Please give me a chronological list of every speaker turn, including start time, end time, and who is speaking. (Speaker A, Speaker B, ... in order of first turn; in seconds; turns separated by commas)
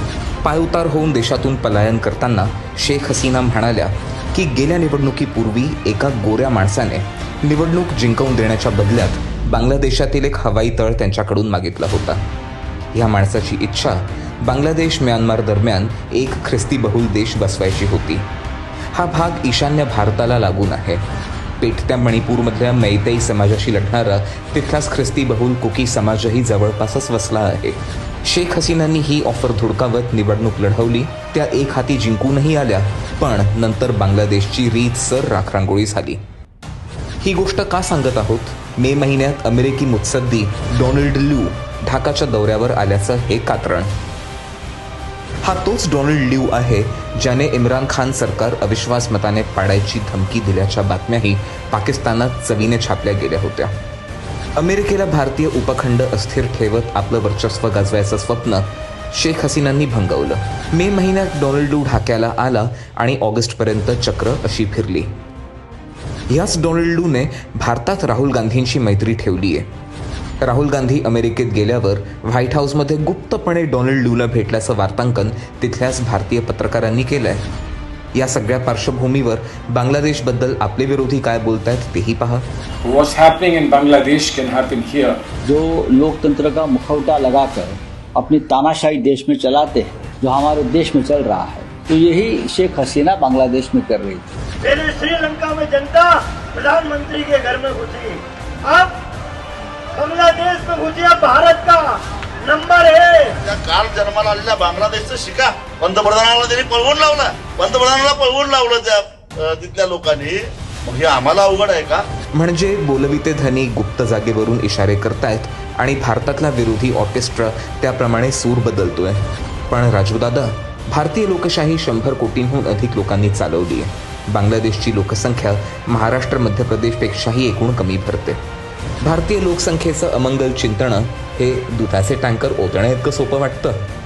Speaker A: 0.4-12.2, Speaker A: 12.9-18.3, Speaker A: 18.9-21.1, Speaker A: 21.6-36.2, Speaker A: 37.2-43.9, Speaker A: 45.4-53.7, Speaker A: 54.6-65.1, Speaker A: 66.3-69.7, Speaker A: 70.4-77.5, Speaker A: 78.1-82.5, Speaker B: 82.8-85.2, Speaker C: 85.5-94.3, Speaker D: 94.6-98.9, Speaker D: 100.0-103.4, Speaker E: 103.4-112.0, Speaker A: 112.3-128.4, Speaker A: 129.0-133.9